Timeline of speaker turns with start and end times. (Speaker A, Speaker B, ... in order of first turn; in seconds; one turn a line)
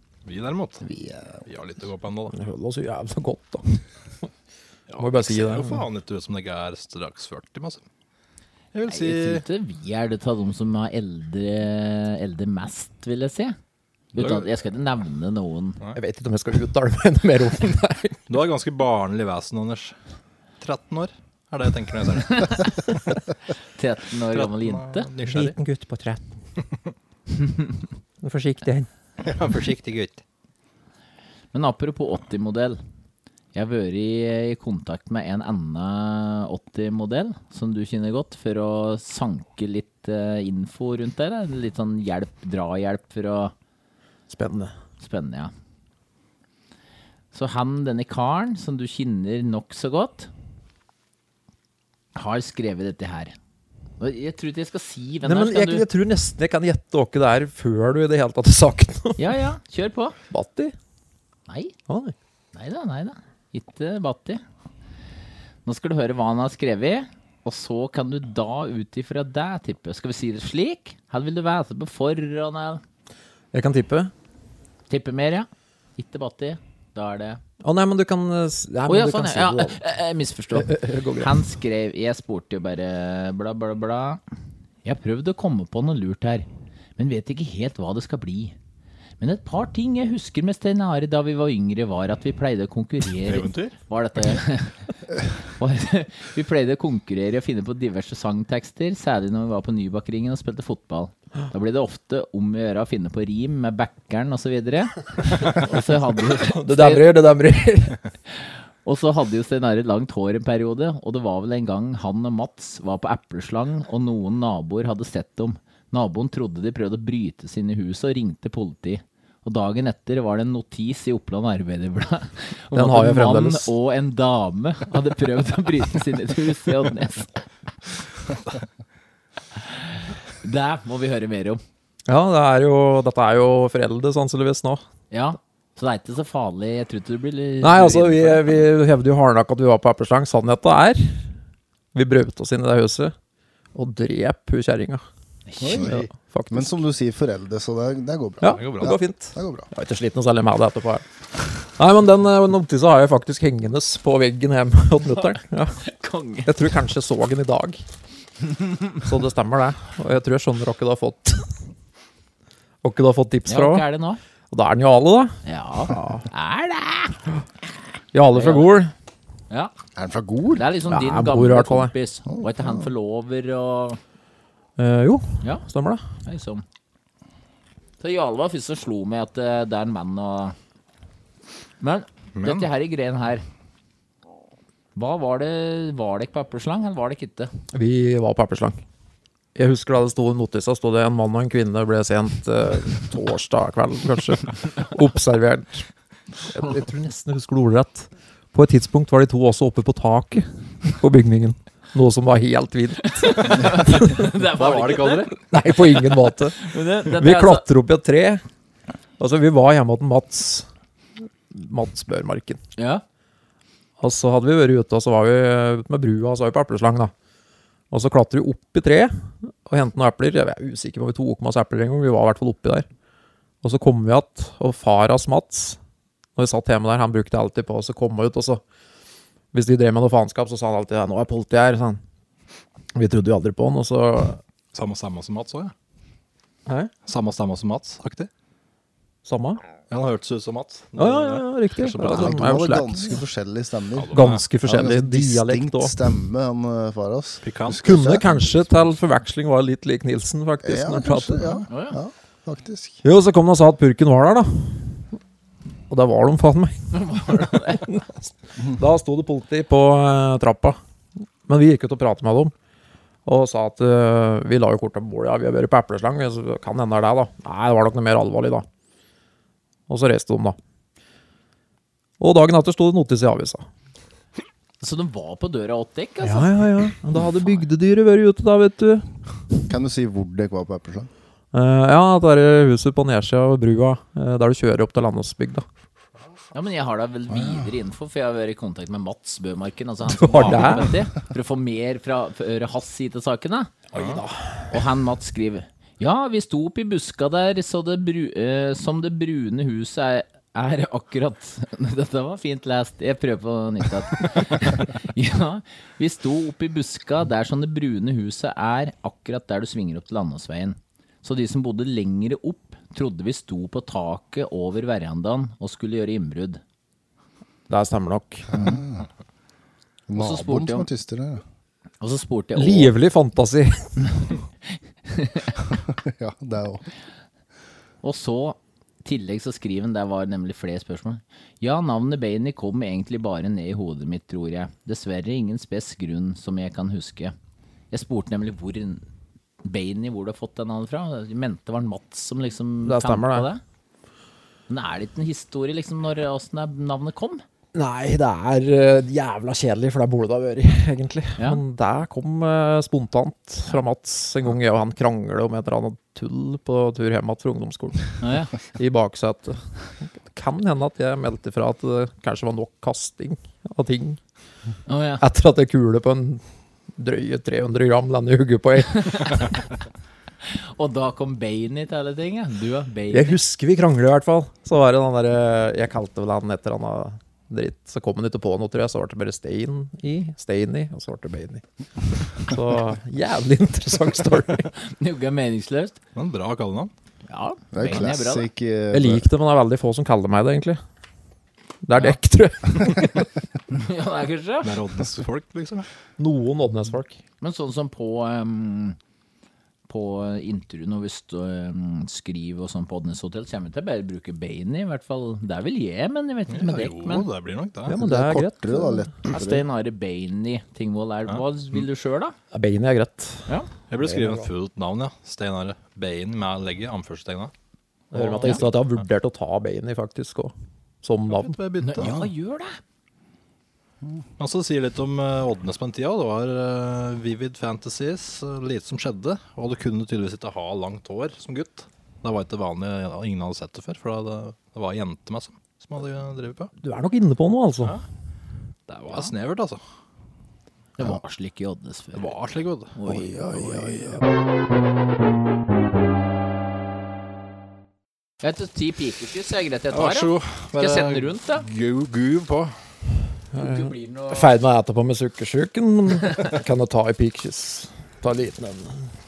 Speaker A: 0.2-0.8
Speaker B: 0.8-1.4
Speaker A: 1.5-2.3
Speaker C: 2.3-3.8
Speaker A: 4.9-7.8
Speaker C: 5.0-5.8
Speaker A: 8.7-9.4
Speaker D: 8.9-13.6
Speaker D: 14.1-15.8
Speaker A: 14.2-14.5
Speaker C: 15.9-18.2
Speaker A: 18.3-19.9
Speaker A: 20.6-22.7
Speaker D: 22.4-22.6
Speaker D: 23.8-25.1
Speaker A: 24.3-25.5
Speaker C: 25.2-26.2
Speaker C: 28.2-28.9
Speaker A: 29.2-30.2
Speaker D: 31.5-32.8
Speaker D: 33.5-43.5
Speaker C: 44.3-44.7
Speaker D: 45.0-45.5
Speaker D: 47.3-50.3
Speaker D: 52.1-53.3
Speaker D: 54.0-55.9
Speaker C: 55.2-59.2
Speaker D: 59.2-60.1
Speaker C: 60.3-60.7
Speaker D: 61.5-61.7
Speaker C: 61.9-62.1
Speaker D: 62.5-64.4
Speaker D: 65.6-72.8
Speaker C: 73.5-74.1
Speaker D: 74.9-77.4
Speaker C: 77.6-79.8
Speaker D: 78.9-84.2
Speaker C: 80.5-81.4
Speaker D: 84.8-86.5
Speaker D: 87.0-88.5
Speaker D: 89.2-94.8
Speaker A: 93.2-93.8
Speaker D: 95.4-107.1
Speaker C: 106.3-108.0
Speaker D: 108.3-127.4
Speaker C: 122.7-123.7
Speaker D: 129.6-131.6
Speaker C: 132.1-134.8
Speaker D: 135.1-138.6
Speaker C: 137.6-141.3
Speaker C: 141.9-143.1
Speaker C: 143.7-145.0
Speaker D: 145.5-145.9
Speaker B: 145.6-149.7
Speaker A: 145.7-146.1
Speaker C: 145.7-146.8
Speaker C: 148.4-151.0
Speaker A: 148.5-148.9
Speaker C: 151.7-155.8
Speaker D: 155.8-156.5
Speaker C: 156.4-157.8
Speaker C: 159.0-161.5
Speaker C: 162.8-163.9
Speaker D: 163.5-164.2
Speaker C: 164.5-166.2
Speaker D: 165.4-167.2
Speaker C: 168.1-168.9
Speaker D: 168.3-168.7
Speaker B: 169.9-170.7
Speaker D: 170.5-174.0
Speaker C: 170.9-171.9
Speaker B: 172.3-172.9
Speaker C: 174.8-176.0
Speaker D: 176.2-176.6
Speaker D: 178.0-180.5
Speaker D: 181.8-183.4
Speaker A: 182.3-182.7
Speaker D: 184.9-187.5
Speaker C: 187.7-188.8
Speaker C: 189.5-195.9
Speaker C: 196.4-204.2
Speaker D: 203.2-205.3
Speaker A: 204.5-205.3
Speaker C: 205.5-208.4
Speaker D: 206.5-207.6
Speaker C: 209.2-210.7
Speaker C: 211.5-212.6
Speaker D: 212.8-213.0
Speaker C: 214.0-217.1
Speaker C: 217.9-222.9
Speaker C: 223.6-225.8
Speaker C: 226.3-228.6
Speaker C: 229.5-232.0
Speaker C: 232.9-234.4
Speaker A: 234.7-235.7
Speaker C: 236.7-236.9
Speaker A: 237.1-238.3
Speaker C: 239.2-239.6
Speaker A: 239.9-242.4
Speaker C: 241.0-243.2
Speaker B: 242.0-248.8
Speaker A: 243.9-244.4
Speaker C: 244.1-246.0
Speaker A: 247.4-247.8
Speaker C: 247.8-251.7
Speaker B: 250.6-253.0
Speaker D: 251.7-252.0
Speaker C: 253.0-255.1
Speaker C: 255.9-260.8
Speaker D: 256.9-257.8
Speaker C: 261.4-262.5
Speaker C: 263.2-268.6
Speaker C: 269.9-270.6
Speaker C: 272.2-273.6
Speaker D: 274.8-276.5
Speaker C: 276.2-279.1
Speaker D: 277.3-277.6
Speaker B: 279.7-281.1
Speaker C: 281.5-285.6
Speaker D: 286.5-293.7
Speaker B: 287.3-287.7
Speaker C: 290.1-291.0
Speaker C: 293.9-294.7
Speaker A: 293.9-294.2
Speaker D: 294.7-316.6
Speaker C: 317.7-318.6
Speaker B: 318.5-319.1
Speaker B: 320.1-321.4
Speaker D: 320.1-320.9
Speaker D: 322.0-322.9
Speaker C: 322.6-324.3
Speaker D: 325.1-325.5
Speaker B: 325.7-326.9
Speaker D: 328.0-337.3
Speaker D: 337.9-339.0
Speaker D: 339.6-343.6
Speaker C: 342.8-343.5
Speaker D: 344.7-347.4
Speaker C: 347.7-364.2
Speaker D: 358.2-358.5
Speaker D: 364.9-365.2
Speaker C: 365.2-366.4
Speaker C: 366.9-369.6
Speaker D: 370.4-373.4
Speaker C: 373.1-381.6
Speaker C: 382.1-384.7
Speaker D: 384.8-386.0
Speaker A: 386.1-386.9
Speaker D: 387.2-388.5
Speaker B: 387.7-389.3
Speaker C: 388.9-390.8
Speaker C: 391.8-393.3
Speaker D: 393.7-394.8
Speaker A: 394.6-395.9
Speaker C: 396.2-397.2
Speaker D: 397.4-399.0
Speaker D: 399.9-407.2
Speaker A: 406.5-407.9
Speaker C: 407.9-409.1
Speaker B: 407.9-409.6
Speaker D: 409.3-412.4
Speaker C: 412.5-413.5
Speaker A: 413.9-417.5
Speaker C: 414.0-414.5
Speaker C: 418.1-421.6
Speaker A: 418.1-418.8
Speaker A: 421.3-422.1
Speaker D: 421.8-422.8
Speaker A: 424.4-436.7
Speaker C: 436.8-437.9
Speaker A: 438.9-439.8
Speaker D: 441.0-442.4
Speaker A: 442.1-442.9
Speaker D: 442.9-444.0
Speaker B: 443.0-444.2
Speaker D: 448.4-451.6
Speaker A: 449.9-452.7
Speaker C: 453.5-459.0
Speaker D: 453.6-454.5